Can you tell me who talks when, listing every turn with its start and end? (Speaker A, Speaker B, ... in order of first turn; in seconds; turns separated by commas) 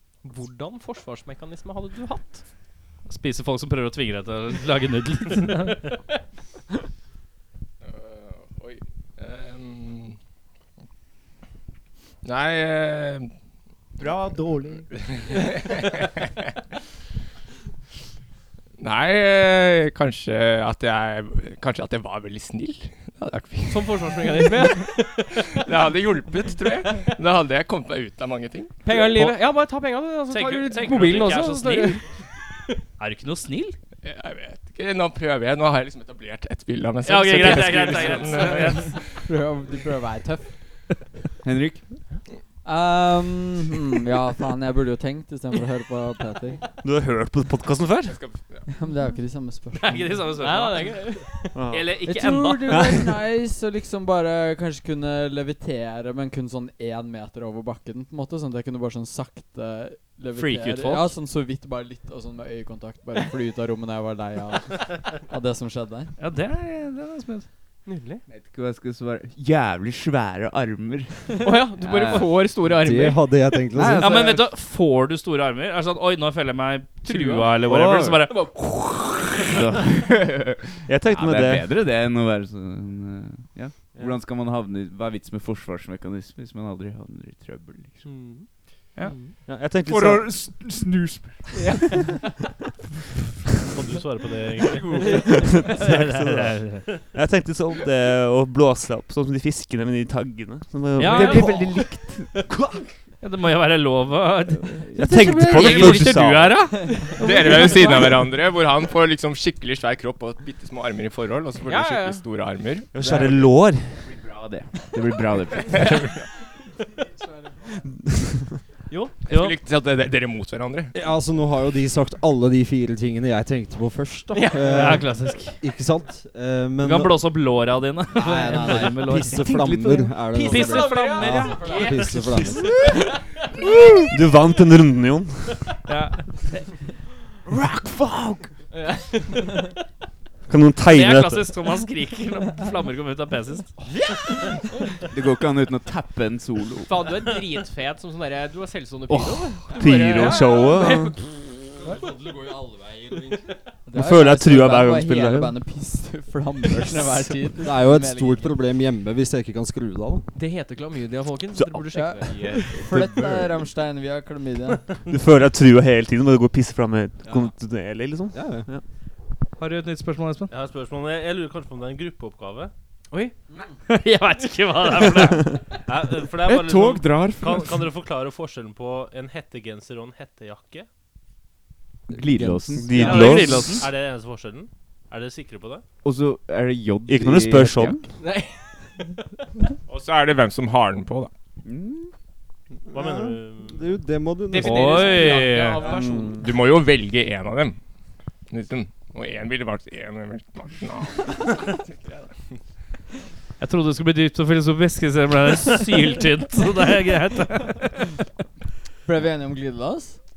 Speaker A: 0.2-2.4, Speaker B: 3.1-5.8, Speaker C: 7.8-10.2, Speaker C: 12.2-13.3, Speaker D: 14.0-14.9, Speaker C: 14.9-16.2, Speaker C: 18.8-24.6, Speaker A: 23.7-25.6, Speaker C: 25.5-28.8, Speaker A: 28.8-32.0, Speaker B: 30.3-32.0, Speaker B: 33.0-33.8, Speaker C: 34.0-39.2, Speaker B: 37.0-38.9, Speaker E: 38.6-40.5, Speaker D: 41.4-41.8, Speaker E: 42.6-46.6, Speaker F: 46.8-48.2, Speaker C: 48.1-48.6, Speaker E: 48.7-50.4, Speaker B: 49.8-51.1, Speaker A: 50.4-51.5, Speaker F: 51.5-52.0, Speaker B: 51.7-52.9, Speaker E: 52.0-66.1, Speaker F: 52.7-53.1, Speaker B: 60.3-61.1, Speaker B: 66.2-67.5, Speaker A: 67.8-68.2, Speaker D: 68.3-71.3, Speaker A: 71.4-73.3, Speaker D: 71.8-72.5, Speaker G: 72.7-74.1, Speaker D: 73.8-74.2, Speaker E: 73.9-74.4, Speaker B: 74.0-78.6, Speaker A: 77.0-77.7, Speaker D: 77.6-78.4, Speaker A: 78.3-78.9, Speaker D: 79.4-88.0, Speaker F: 80.9-81.7, Speaker A: 88.0-89.3, Speaker F: 89.4-90.5, Speaker D: 89.8-91.7, Speaker A: 91.6-92.3, Speaker H: 93.7-95.1, Speaker D: 94.7-95.1, Speaker A: 95.0-95.5, Speaker F: 95.5-101.8, Speaker B: 95.7-96.8, Speaker B: 101.0-101.7, Speaker D: 101.0-102.8, Speaker A: 101.2-101.6, Speaker B: 103.2-107.1, Speaker F: 104.9-106.7, Speaker E: 105.0-106.1, Speaker A: 105.4-108.0, Speaker E: 106.6-108.0, Speaker C: 107.2-113.0, Speaker A: 111.7-112.2, Speaker F: 112.9-114.1, Speaker D: 113.0-116.2, Speaker C: 115.7-116.2, Speaker A: 118.9-119.1, Speaker C: 119.2-120.9, Speaker G: 120.9-127.3, Speaker A: 124.3-125.0, Speaker B: 124.6-125.6, Speaker B: 126.8-129.5, Speaker G: 128.1-132.8, Speaker E: 128.2-128.8, Speaker D: 128.8-130.2, Speaker A: 130.3-133.7, Speaker B: 130.3-132.5, Speaker E: 131.5-131.8, Speaker F: 134.1-135.6, Speaker B: 135.9-136.4, Speaker D: 137.5-138.5, Speaker A: 138.7-139.7, Speaker F: 140.5-141.5, Speaker B: 140.9-143.7, Speaker D: 145.1-146.9, Speaker A: 146.8-151.2, Speaker D: 149.1-149.4, Speaker F: 149.7-151.2, Speaker E: 153.8-158.5, Speaker F: 153.9-155.6, Speaker G: 157.6-160.3, Speaker A: 160.3-162.6, Speaker F: 161.5-161.8, Speaker E: 161.9-165.0, Speaker D: 162.2-163.7, Speaker F: 165.1-168.8, Speaker G: 168.3-168.7, Speaker B: 169.6-170.5, Speaker H: 170.5-172.7, Speaker B: 173.9-175.5, Speaker H: 175.8-180.8, Speaker D: 176.4-177.9, Speaker D: 182.1-183.8, Speaker G: 182.1-183.2, Speaker F: 182.8-183.8, Speaker B: 183.0-183.9, Speaker H: 183.0-185.8, Speaker D: 186.0-188.0, Speaker F: 187.1-188.0, Speaker A: 188.2-189.1, Speaker C: 189.9-191.3, Speaker D: 191.6-192.1, Speaker G: 192.9-195.3, Speaker H: 192.9-194.0, Speaker A: 194.5-196.4, Speaker B: 194.6-196.0, Speaker F: 195.8-196.4, Speaker C: 196.3-197.8, Speaker C: 198.5-202.3, Speaker B: 203.6-208.1, Speaker E: 209.1-210.2